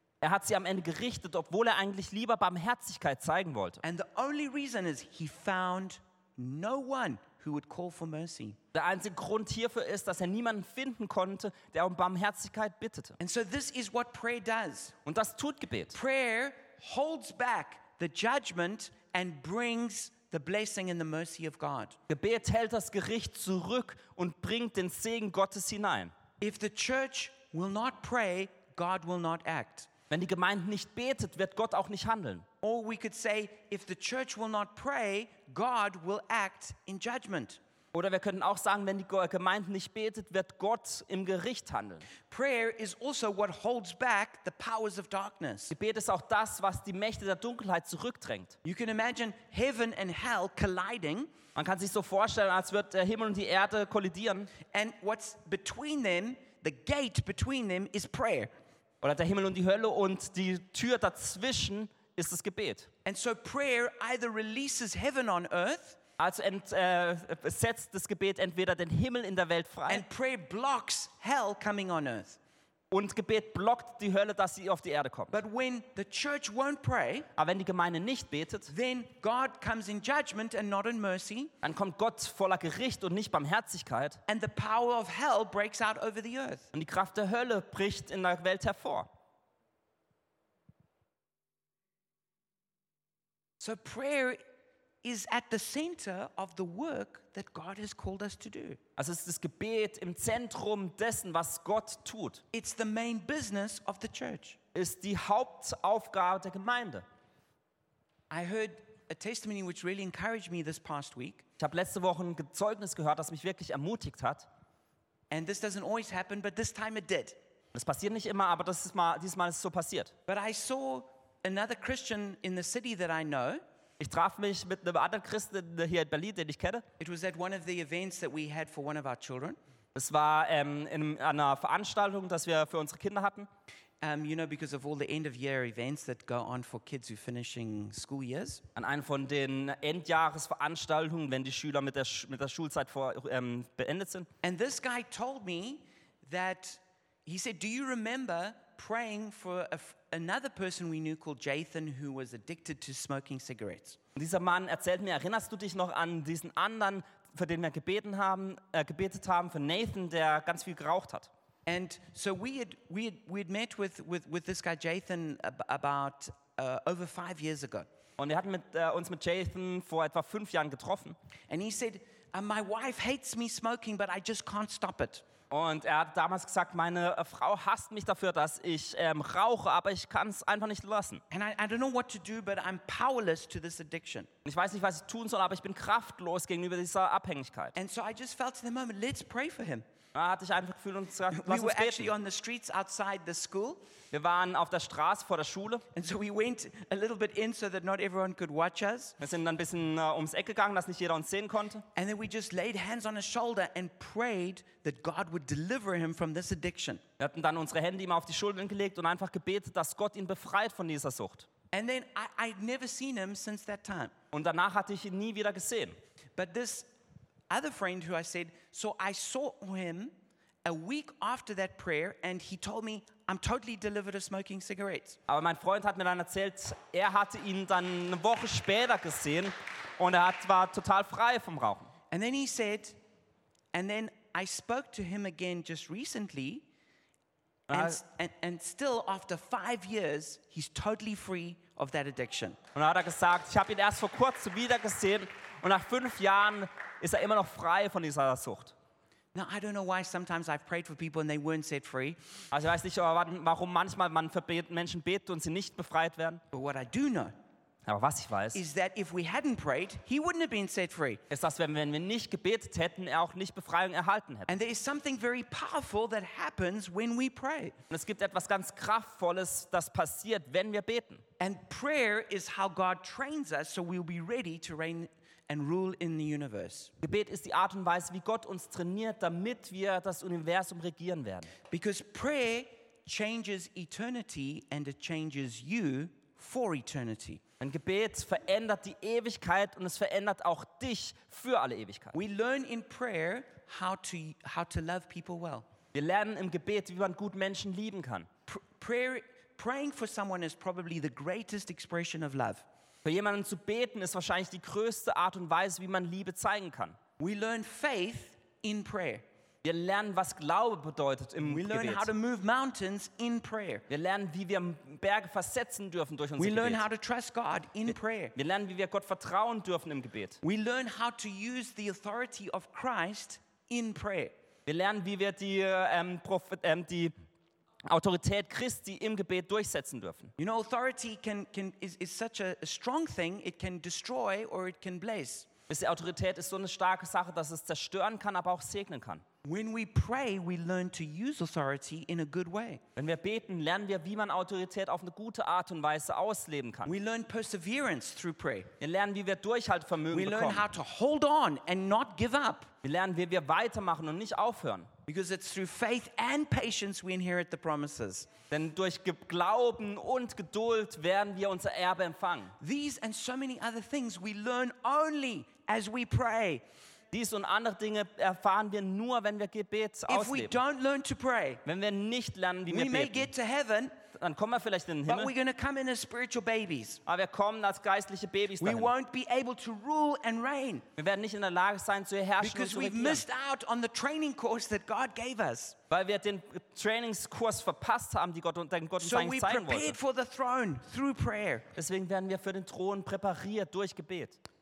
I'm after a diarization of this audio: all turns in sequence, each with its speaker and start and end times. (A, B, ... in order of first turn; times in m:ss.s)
0:00.2-0:03.8 A
0:03.8-0:08.6 B
0:08.7-0:13.2 A
0:13.2-0:15.0 B
0:15.0-0:16.0 A
0:15.9-0:22.0 B
0:22.1-0:26.1 A
0:26.4-0:29.9 B
0:30.1-0:32.4 A
0:32.6-0:37.6 B
0:37.9-0:42.1 A
0:42.3-0:45.7 B
0:45.7-0:48.6 A
0:48.6-0:51.3 B
0:51.6-0:54.5 A
0:54.7-0:58.5 B
0:59.0-1:02.9 A
1:03.0-1:06.0 B
1:06.2-1:10.0 A
1:09.9-1:12.4 B
1:12.9-1:15.4 A
1:15.3-1:17.3 B
1:17.4-1:18.7 A
1:18.7-1:21.5 B
1:21.6-1:24.2 A
1:24.3-1:26.7 B
1:26.7-1:29.1 A
1:33.6-1:34.4 B
1:35.0-1:38.8 B
1:39.0-1:42.4 A
1:42.5-1:44.6 B
1:44.8-1:47.0 A
1:48.3-1:51.4 B
1:51.6-1:54.5 A
1:55.3-1:57.4 B
1:57.7-2:00.1 A
2:00.3-2:03.6 B
2:04.0-2:06.8 A
2:07.0-2:09.6 B
2:10.0-2:13.5 A
2:14.0-2:18.6 B
2:18.8-2:24.3 A
2:24.4-2:34.0 B
2:34.2-2:41.3 A
2:41.7-2:47.9 B
2:48.2-2:51.2 A
2:51.5-2:55.2 B
2:55.5-3:01.2 A
3:01.3-3:04.3 B
3:04.4-3:07.8 A
3:07.8-3:09.8 B
3:10.1-3:12.1 A
3:11.3-3:13.8 B
3:14.1-3:15.9 A
3:15.9-3:19.2 B
3:19.2-3:21.8 A
3:22.0-3:27.0 B
3:27.2-3:31.5 A
3:31.7-3:34.1 B
3:34.3-3:36.0 A
3:36.4-3:36.9 B
3:37.5-3:40.1 B
3:40.6-3:45.2 B
3:45.3-3:51.9 A
3:52.1-3:53.0 B
3:53.7-3:56.7 B
3:57.7-3:58.0 A
3:57.7-4:02.6 B
4:02.8-4:08.7 A
4:09.3-4:12.2 B
4:12.5-4:16.4 A
4:16.5-4:17.3 B
4:17.9-4:18.6 A
4:18.5-4:21.2 B
4:21.3-4:24.5 A
4:24.5-4:27.8 B
4:27.9-4:31.2 A
4:31.4-4:36.9 B
4:37.0-4:41.5 A
4:41.7-4:47.4 B
4:47.6-4:52.2 A
4:52.1-4:55.7 B
4:55.9-4:58.3 A
4:58.5-5:02.6 B
5:03.0-5:07.0 A
5:07.2-5:09.2 B
5:09.6-5:12.1 A
5:11.4-5:13.8 B
5:13.9-5:16.8 A
5:16.4-5:18.4 B
5:18.4-5:20.4 A
5:20.4-5:24.3 B
5:24.7-5:27.1 A
5:27.9-5:30.3 A
5:30.4-5:35.5 B
5:35.7-5:39.2 A
5:39.4-5:42.8 B
5:43.0-5:46.9 A
5:46.9-5:48.7 B
5:48.8-5:50.6 A
5:50.1-5:52.7 B
5:52.8-5:54.9 A
5:55.1-5:58.3 B
5:58.5-6:02.6 A
6:02.6-6:06.6 B
6:07.1-6:10.6 A
6:10.1-6:11.6 B
6:11.7-6:13.3 A
6:12.7-6:14.0 B
6:14.2-6:15.3 A
6:15.1-6:17.0 B
6:17.1-6:18.9 A
6:18.6-6:20.8 B
6:21.0-6:23.2 A
6:22.4-6:25.8 B
6:25.9-6:30.0 A
6:29.0-6:31.7 B
6:31.8-6:34.4 A